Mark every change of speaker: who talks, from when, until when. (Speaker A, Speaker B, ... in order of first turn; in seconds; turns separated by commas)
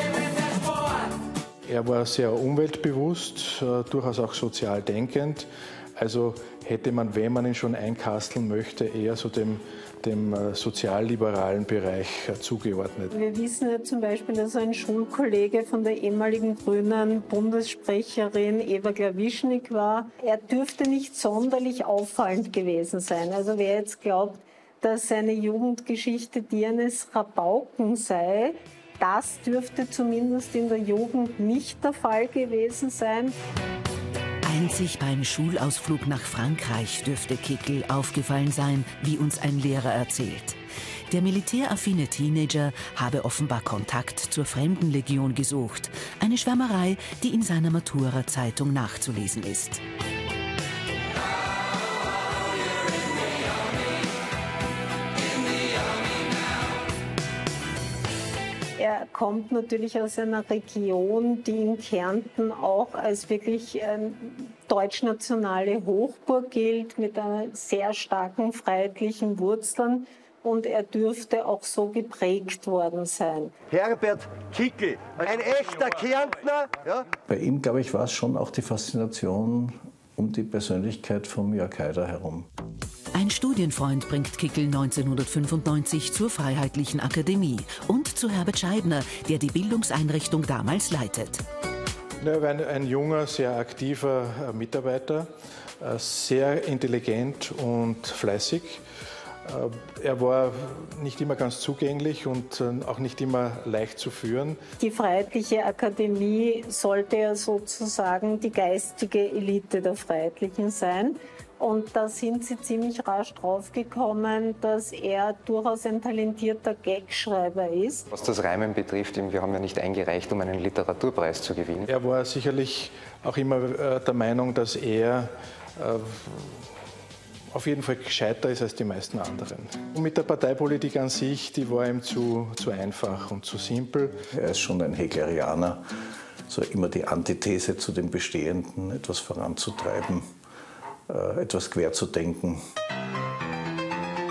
Speaker A: 1.6-13.1, Speaker B: 13.1-33.4, Speaker C: 34.4-40.6, Speaker C: 41.1-49.8, Speaker B: 58.8-73.5, Speaker D: 73.7-77.0, Speaker E: 77.3-82.5, Speaker C: 83.1-91.4, Speaker A: 92.2-98.8, Speaker A: 99.4-104.6, Speaker B: 104.8-118.1, Speaker F: 118.1-121.9, Speaker A: 121.9-126.7, Speaker A: 127.5-134.2, Speaker E: 134.3-135.8, Speaker E: 136.5-140.3, Speaker E: 141.1-142.6